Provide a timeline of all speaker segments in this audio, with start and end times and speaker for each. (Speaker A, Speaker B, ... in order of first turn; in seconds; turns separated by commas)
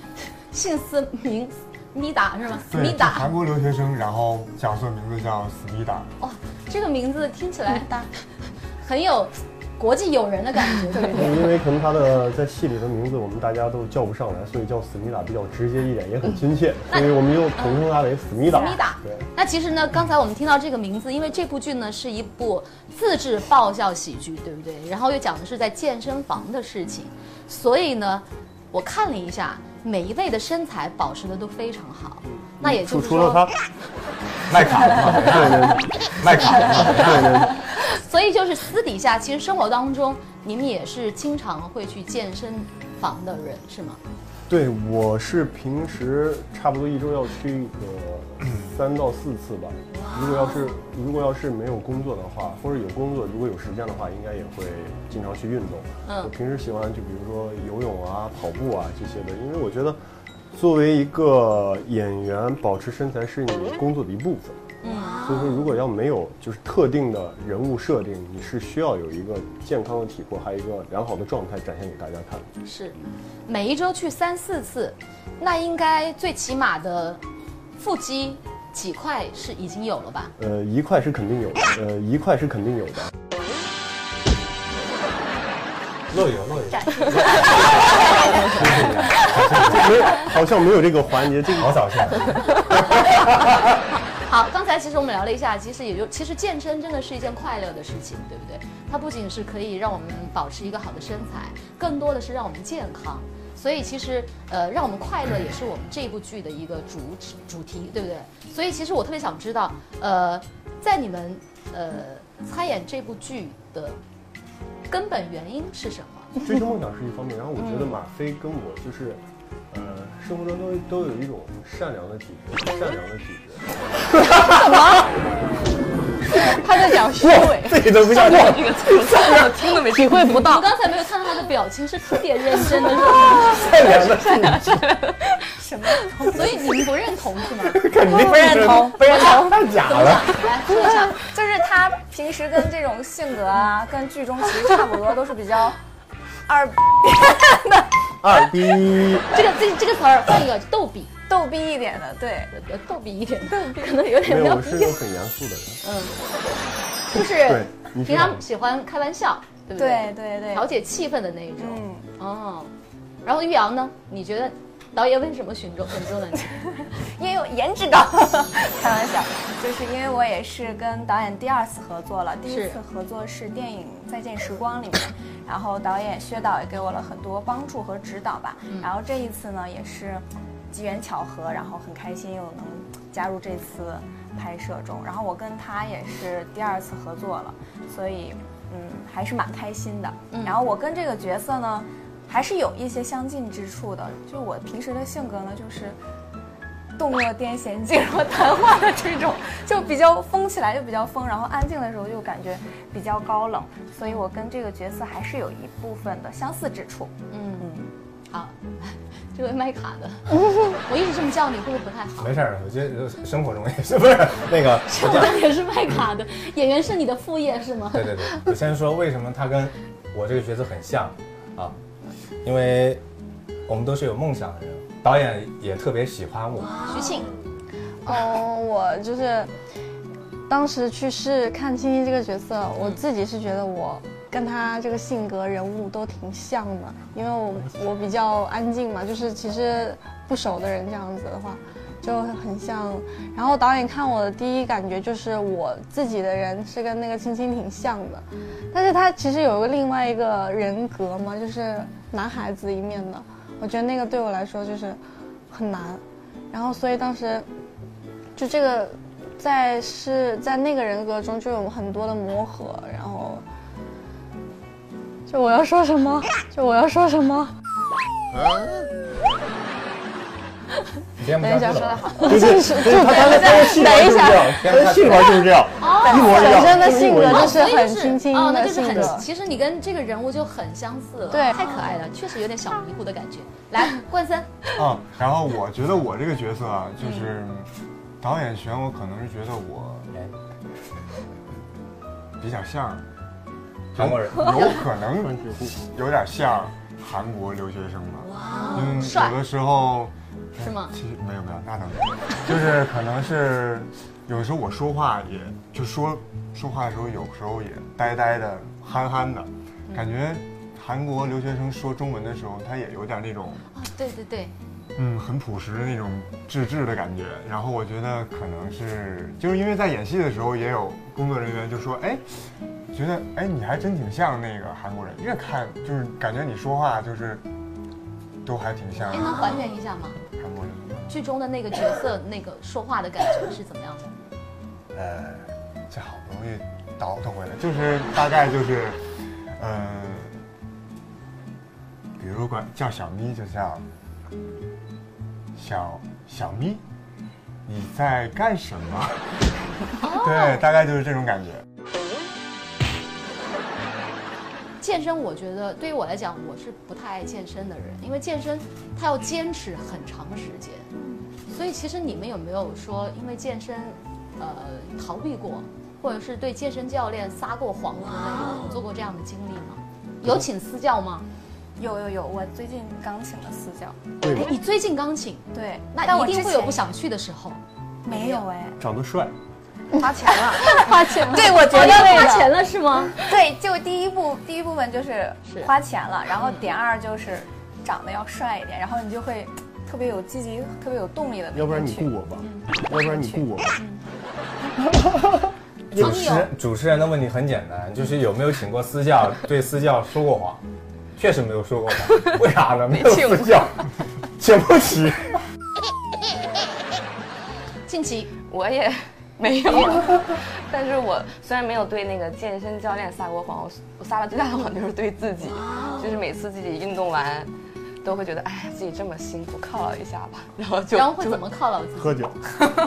Speaker A: 0.5-3.3, Speaker B: 2.7-6.1, Speaker A: 6.2-7.9, Speaker C: 7.7-8.1, Speaker A: 8.8-11.3, Speaker D: 11.0-19.3, Speaker A: 16.9-17.9, Speaker A: 18.4-33.4, Speaker D: 32.2-33.5, Speaker E: 34.5-37.5, Speaker D: 34.6-37.6, Speaker A: 36.5-36.9, Speaker A: 37.8-44.0, Speaker D: 44.5-60.0, Speaker A: 56.1-56.3, Speaker D: 60.5-64.6, Speaker A: 64.8-65.2, Speaker D: 65.2-72.5, Speaker A: 72.6-77.2, Speaker A: 77.8-80.3, Speaker D: 80.4-83.1, Speaker E: 86.1-87.7, Speaker F: 86.9-87.4, Speaker E: 88.4-90.2, Speaker D: 88.6-88.9, Speaker D: 89.4-92.1, Speaker E: 91.6-92.3, Speaker A: 94.2-114.0, Speaker A: 114.9-116.4, Speaker D: 116.4-123.8, Speaker E: 124.3-124.8, Speaker C: 124.4-125.1, Speaker C: 126.3-127.8, Speaker E: 127.1-129.5, Speaker G: 127.9-130.5, Speaker C: 129.9-130.7, Speaker A: 130.4-133.6, Speaker E: 133.4-134.8, Speaker G: 134.7-135.1, Speaker F: 135.6-136.8, Speaker A: 136.2-137.9, Speaker E: 137.7-140.4, Speaker C: 138.1-139.6, Speaker A: 139.1-141.2, Speaker F: 141.2-145.8, Speaker F: 146.5-147.9, Speaker D: 148.2-149.3, Speaker A: 149.3-151.1, Speaker F: 151.3-152.5, Speaker A: 152.5-155.0, Speaker D: 154.2-155.8, Speaker A: 155.8-156.1, Speaker A: 157.1-162.7, Speaker D: 157.3-158.4, Speaker F: 159.8-160.7, Speaker F: 161.6-162.1, Speaker A: 163.2-166.7, Speaker F: 166.9-196.0, Speaker A: 172.4-172.8, Speaker A: 190.3-190.6, Speaker F: 197.0-207.9, Speaker A: 207.3-207.7, Speaker A: 208.3-212.3, Speaker E: 212.2-215.4, Speaker A: 214.9-218.3, Speaker E: 217.9-221.8, Speaker E: 222.4-223.0, Speaker E: 223.7-226.9, Speaker A: 226.9-227.3, Speaker C: 228.1-229.5, Speaker C: 230.5-255.0, Speaker C: 255.5-257.5, Speaker C: 258.4-263.4, Speaker C: 265.3-267.5, Speaker E: 271.2-272.6, Speaker C: 271.4-274.6, Speaker D: 272.2-277.7, Speaker E: 274.6-275.4, Speaker A: 275.8-284.6, Speaker C: 276.1-279.2, Speaker C: 281.3-281.6, Speaker B: 284.8-287.7, Speaker B: 288.2-290.1, Speaker B: 292.4-293.1, Speaker E: 293.9-294.8, Speaker B: 293.9-313.7, Speaker D: 295.0-295.8, Speaker A: 298.6-299.4, Speaker A: 300.6-300.9, Speaker A: 313.7-314.5, Speaker B: 314.9-322.2, Speaker B: 322.9-327.4, Speaker B: 328.4-329.6, Speaker A: 329.1-330.2, Speaker B: 330.4-331.2, Speaker A: 331.1-334.1, Speaker B: 334.9-339.0, Speaker B: 339.6-340.4, Speaker B: 342.2-343.9, Speaker B: 345.6-346.8, Speaker B: 347.6-349.2, Speaker A: 350.0-350.6, Speaker B: 350.1-351.6, Speaker A: 354.8-360.9, Speaker A: 361.5-371.2, Speaker F: 371.8-374.0, Speaker D: 374.2-374.5, Speaker A: 374.3-378.5, Speaker F: 375.5-376.9, Speaker F: 378.0-378.8, Speaker D: 378.8-379.3, Speaker F: 379.9-382.6, Speaker A: 380.6-383.2, Speaker C: 380.7-382.0, Speaker F: 383.2-392.1, Speaker A: 386.4-386.7, Speaker D: 391.5-393.8, Speaker F: 392.9-393.5, Speaker E: 395.9-400.6, Speaker A: 395.9-396.5, Speaker E: 401.1-403.9, Speaker G: 402.9-403.7, Speaker E: 404.4-405.4, Speaker A: 407.9-408.3, Speaker G: 408.5-417.5, Speaker A: 409.7-410.0, Speaker G: 418.0-421.4, Speaker A: 420.9-422.2, Speaker D: 422.0-422.4